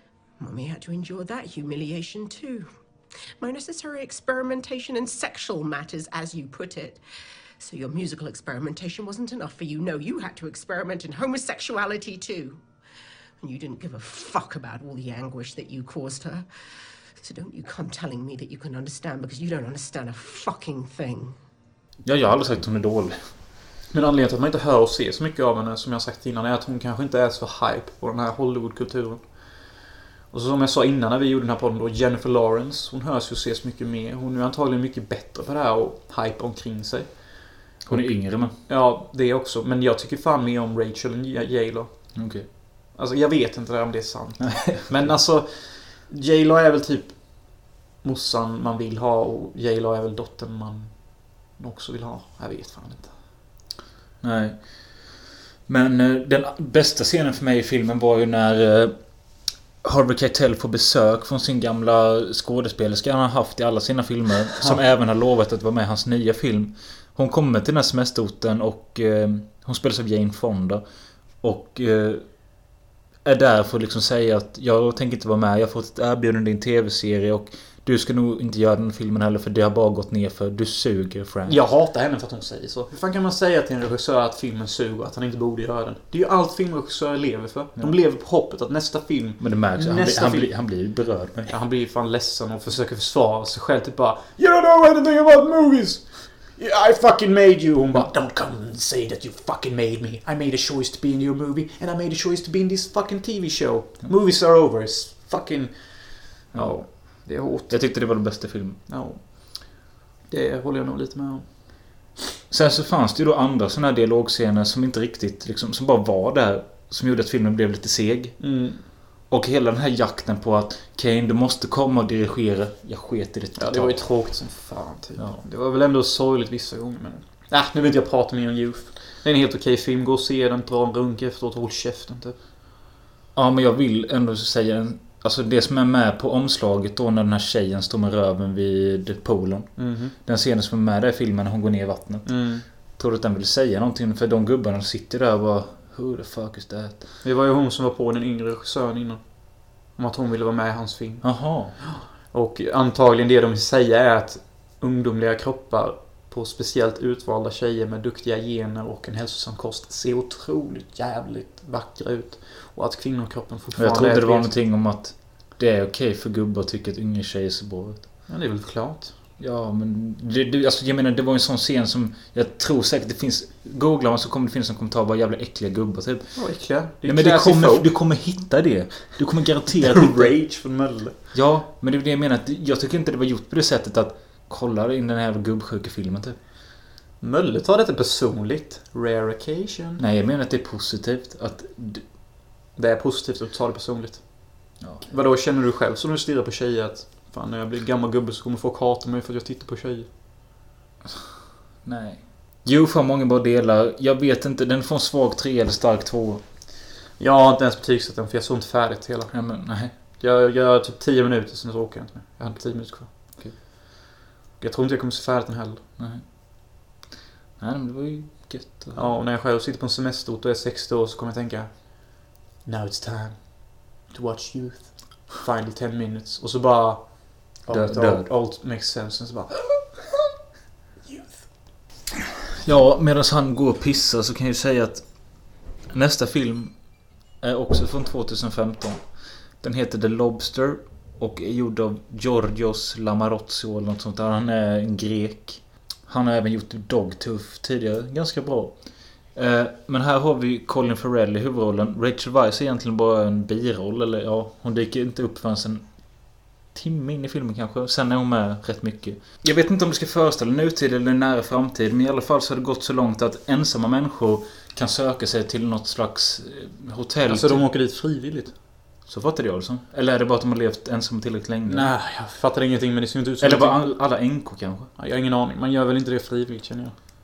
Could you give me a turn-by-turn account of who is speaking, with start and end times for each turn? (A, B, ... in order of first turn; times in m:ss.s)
0:00.4-0:02.7 A
0:03.4-0:07.0 A
0:07.6-0:12.6 A
0:13.4-0:16.5 A
0:17.2-0:21.4 A
0:22.0-0:23.2 B
0:23.9-0:29.2 C
0:30.3-0:37.1 C
0:37.9-0:38.6 B
0:38.7-0:41.9 C
0:42.2-0:42.5 B
0:43.0-0:47.2 C
0:44.4-0:45.1 B
0:48.0-0:50.9 C
0:51.6-0:53.1 C
0:54.2-0:55.1 B
0:55.7-0:59.0 B
0:59.8-1:10.8 B
1:11.4-1:12.2 B
1:13.2-1:21.6 B
1:21.5-1:30.5 C
1:29.4-1:31.5 B
1:31.5-1:45.7 C
1:46.3-1:47.8 C
1:47.7-1:48.8 B
1:48.9-1:49.7 C
1:50.3-1:51.6 C
1:52.5-1:58.4 B
1:58.4-1:58.8 C
1:59.3-2:04.0 B
2:03.6-2:12.4 C
2:13.4-2:22.4 B
2:19.8-2:20.2 C
2:22.3-2:22.6 C
2:23.0-2:27.0 B
2:27.2-2:44.6 C
2:31.2-2:31.8 B
2:43.8-2:48.1 B
2:48.3-2:49.1 C
2:49.4-2:56.4 B
2:56.4-2:57.9 C
2:57.0-3:00.3 B
2:59.7-3:01.2 C
3:01.3-3:06.4 B
3:07.2-3:10.0 C
3:10.0-3:12.0 B
3:12.8-3:14.4 C
3:15.0-3:20.1 C
3:21.8-3:26.4 B
3:27.2-3:29.3 C
3:29.3-3:29.9 B
3:30.2-3:33.4 C
3:34.6-3:35.8 C
3:37.6-3:39.1 B
3:39.0-3:50.0 C
3:47.7-3:48.3 B
3:51.1-3:51.4 C
3:52.5-3:55.0 B
3:55.9-3:56.8 B
3:57.4-3:59.0 B
3:59.6-4:08.8 B
4:09.3-4:15.9 B
4:16.7-4:27.6 B
4:27.3-4:28.5 C
4:29.1-4:31.9 B
4:31.7-4:33.9 C
4:33.4-4:34.9 B
4:35.0-4:37.0 C